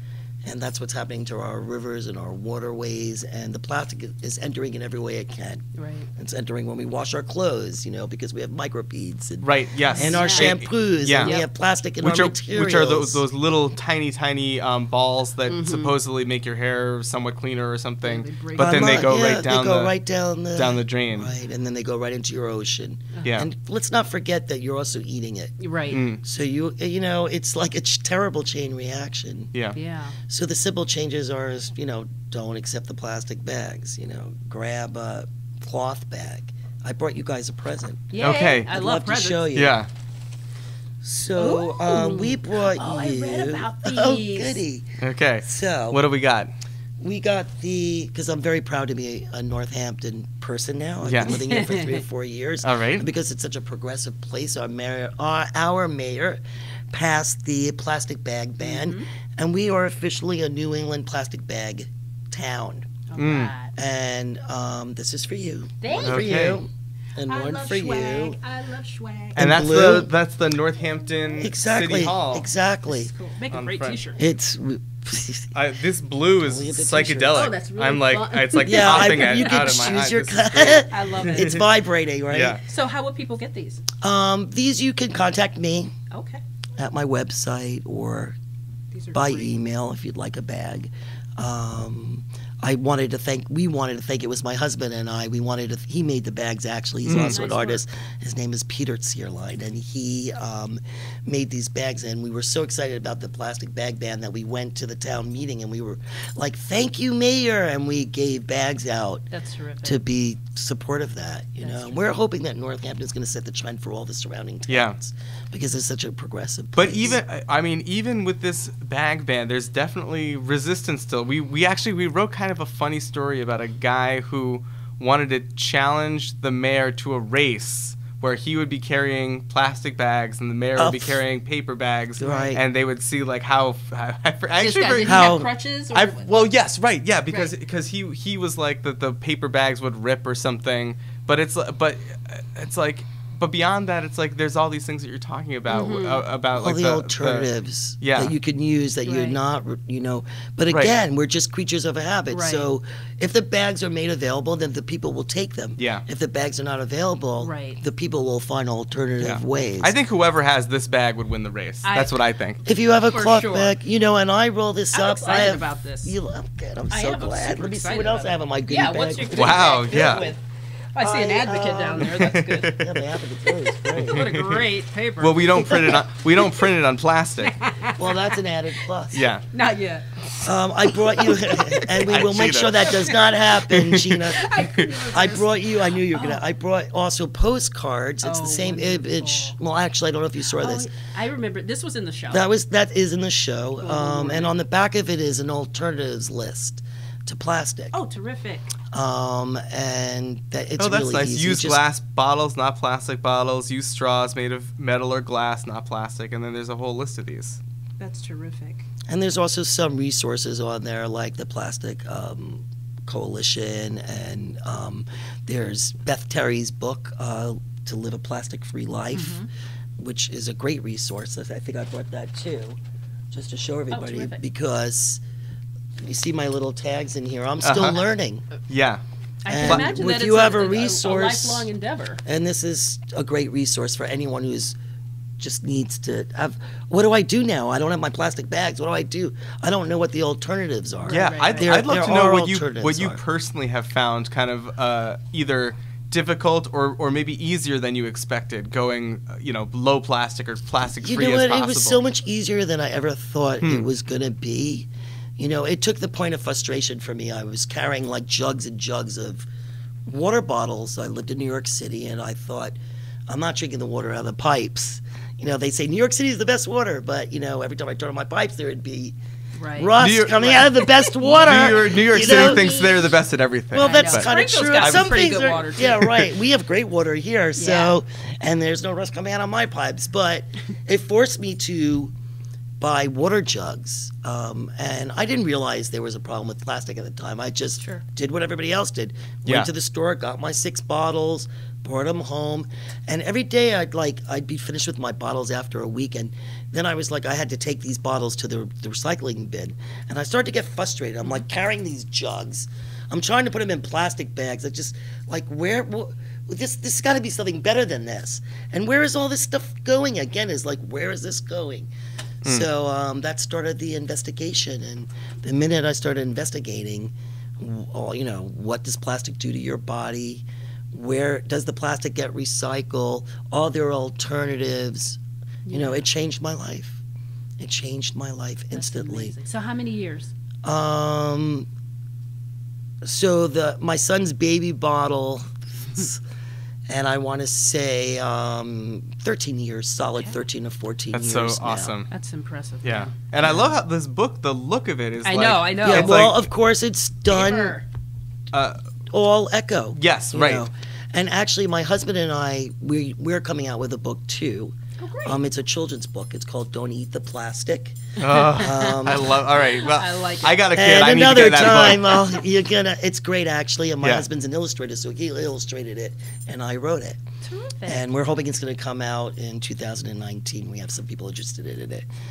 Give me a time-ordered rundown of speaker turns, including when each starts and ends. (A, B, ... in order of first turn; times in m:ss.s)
0:00.4-0:05.6 A
0:05.7-0:06.1 B
0:06.2-0:13.2 A
0:09.4-0:11.4 C
0:09.9-0:10.6 B
0:11.2-0:11.4 B
0:12.0-0:19.9 C
0:15.5-0:15.9 B
0:18.0-0:19.1 B
0:18.6-0:25.6 A
0:20.5-0:21.3 C
0:23.1-0:23.4 B
0:25.6-0:26.0 B
0:25.9-0:26.2 C
0:26.1-0:29.5 A
0:29.7-0:30.2 B
0:30.3-0:39.8 A
0:38.1-0:39.5 B
0:38.2-0:38.7 C
0:39.5-0:39.9 C
0:41.0-0:46.0 A
0:41.4-0:44.6 B
0:45.0-0:46.5 C
0:47.0-1:02.9 A
0:51.0-0:51.4 C
0:51.2-0:52.0 B
0:52.6-0:53.0 C
0:58.6-0:59.1 B
1:03.1-1:03.7 B
1:03.2-1:03.5 C
1:03.8-1:08.4 A
1:05.8-1:06.6 B
1:06.0-1:06.6 C
1:07.2-1:10.0 B
1:09.4-1:10.1 A
1:09.4-1:12.5 C
1:11.4-1:13.1 A
1:12.9-1:14.2 B
1:13.5-1:14.0 C
1:14.2-1:15.5 A
1:15.5-1:21.6 C
1:16.4-1:17.5 A
1:17.3-1:20.0 B
1:18.6-1:22.6 A
1:20.6-1:21.6 B
1:22.3-1:22.6 C
1:22.6-1:23.8 B
1:24.0-1:25.9 A
1:26.1-1:26.4 B
1:26.8-1:28.4 A
1:28.9-1:29.5 B
1:29.1-1:49.3 A
1:37.0-1:37.4 C
1:37.1-1:37.8 B
1:49.3-1:50.0 B
1:49.8-1:57.2 A
1:51.6-1:52.0 B
1:54.7-1:54.9 C
1:56.7-2:27.5 C
2:10.8-2:11.2 A
2:12.2-2:12.6 A
2:14.6-2:16.5 B
2:15.0-2:15.5 A
2:25.7-2:26.2 B
2:26.6-2:39.9 A
2:28.0-2:28.3 C
2:29.0-2:29.4 B
2:30.7-2:31.0 C
2:32.3-2:32.7 B
2:35.8-2:36.0 C
2:37.4-2:37.8 B
2:39.2-2:42.6 C
2:41.8-2:42.1 B
2:42.6-2:50.3 A
2:43.0-2:43.7 B
2:44.9-2:46.1 B
2:46.9-2:50.4 B
2:49.3-2:50.3 C
2:50.9-2:52.8 B
2:51.0-2:54.3 A
2:52.0-2:53.0 C
2:53.8-2:54.7 C
2:54.1-2:56.7 B
2:55.2-2:57.6 C
2:55.7-2:56.0 A
2:57.4-2:58.3 B
2:57.9-2:59.3 A
2:59.1-2:59.4 C
2:59.5-3:02.0 B
3:00.4-3:10.9 A
3:02.0-3:03.0 C
3:02.8-3:03.2 B
3:03.7-3:04.9 C
3:04.3-3:06.4 B
3:08.2-3:09.6 B
3:10.6-3:12.4 B
3:12.3-3:17.9 A
3:13.8-3:14.5 B
3:17.9-3:18.7 B
3:18.9-3:21.8 A
3:20.8-3:27.6 C
3:28.0-3:28.9 B
3:29.1-3:39.4 A
3:39.1-3:39.5 B
3:40.0-3:42.8 A
3:43.3-3:45.2 A
3:43.9-3:44.4 B
3:46.0-3:48.4 A
3:47.6-3:48.0 C
3:48.7-3:49.0 C
3:49.4-3:52.2 B
3:49.5-3:51.7 A
3:49.6-3:49.9 C
3:52.2-3:54.8 A
3:55.4-4:03.2 A
4:01.1-4:01.7 B
4:01.1-4:12.0 C
4:11.0-4:19.5 A
4:13.6-4:13.9 C
4:20.1-4:29.1 A
4:29.6-4:33.1 B
4:29.8-4:32.7 A
4:30.0-4:30.7 C
4:31.3-4:35.2 C
4:33.7-4:42.1 A
4:33.8-4:36.2 B
4:37.6-4:37.9 B
4:42.8-5:11.9 A
4:47.8-4:48.0 B
5:12.4-5:27.0 A
5:25.6-5:26.0 B
5:27.6-5:29.4 A
5:28.7-5:30.3 B
5:30.6-5:31.7 A
5:33.0-5:36.2 A
5:36.9-5:41.9 A
5:41.1-5:42.1 C
5:42.1-5:43.1 B
5:42.8-5:46.4 C
5:43.4-5:43.8 A
5:45.2-5:46.2 B
5:45.8-5:47.8 A
5:47.3-5:47.8 B
5:48.5-5:48.8 C
5:49.1-5:59.4 A
5:50.0-5:50.6 C
5:55.0-5:55.4 B
5:58.2-6:02.2 C
5:58.4-5:59.0 B
5:59.7-6:00.6 B
6:00.7-6:07.2 A
6:07.4-6:08.0 B
6:07.8-6:12.1 A